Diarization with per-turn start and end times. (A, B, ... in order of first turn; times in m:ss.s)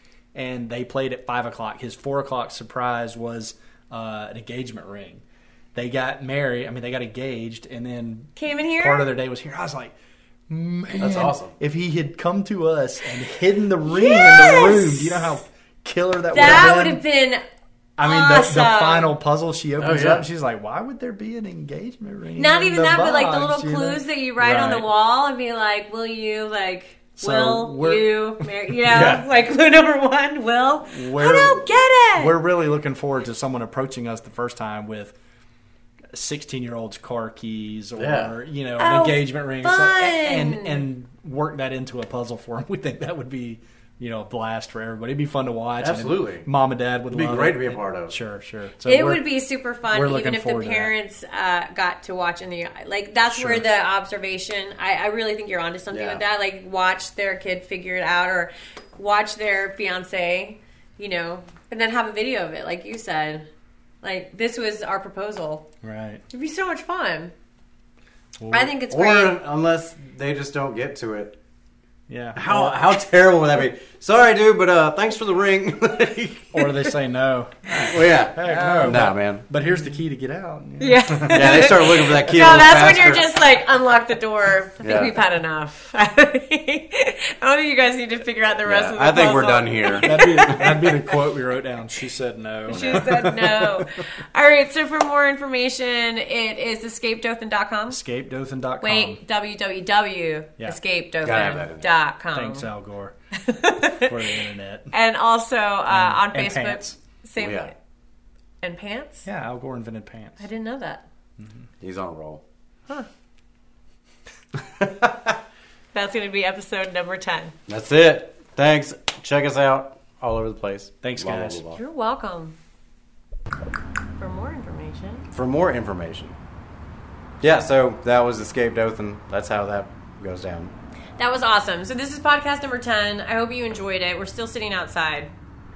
0:00.3-0:05.2 A
0:05.7-0:09.9 A
0:08.4-0:09.1 B
0:10.5-0:17.0 A
0:11.0-0:11.5 C
0:13.8-0:15.4 B
0:16.3-0:17.4 B
0:18.0-0:24.9 A
0:18.0-0:19.1 B
0:19.8-0:20.3 C
0:22.3-0:32.4 B
0:27.2-0:29.1 A
0:28.9-0:29.2 C
0:30.8-0:35.1 A
0:36.1-0:49.2 A
0:38.0-0:38.3 C
0:38.8-0:40.8 B
0:45.8-0:46.4 C
0:47.1-0:48.1 C
0:48.8-1:03.5 B
0:49.9-0:50.9 A
0:53.3-0:53.7 A
0:55.9-0:56.2 C
1:04.0-1:05.7 B
1:05.8-1:06.2 A
1:06.3-1:07.3 B
1:08.4-1:08.7 A
1:08.5-1:09.4 B
1:08.9-1:11.4 C
1:12.1-1:12.8 A
1:12.3-1:16.7 C
1:16.5-1:22.5 A
1:17.9-1:19.4 C
1:18.4-1:18.9 B
1:20.8-1:31.2 B
1:21.3-1:23.3 C
1:24.8-1:25.2 C
1:28.6-1:30.9 C
1:30.0-1:34.0 A
1:32.7-1:38.0 B
1:32.7-1:33.1 C
1:37.9-1:39.2 A
1:38.8-1:42.7 B
1:41.2-1:41.9 C
1:42.3-1:43.1 A
1:43.4-1:47.7 B
1:43.8-1:44.9 A
1:45.9-1:47.0 A
1:47.4-1:47.7 C
1:48.6-1:49.2 B
1:49.2-1:50.4 A
1:50.4-1:51.0 B
1:51.4-1:51.7 A
1:51.8-1:52.4 C
1:55.9-1:57.5 B
1:57.7-2:01.8 C
2:01.0-2:01.6 A
2:01.7-2:02.6 B
2:04.2-2:05.3 B
2:05.3-2:06.3 C
2:07.4-2:10.7 C
2:11.2-2:15.3 B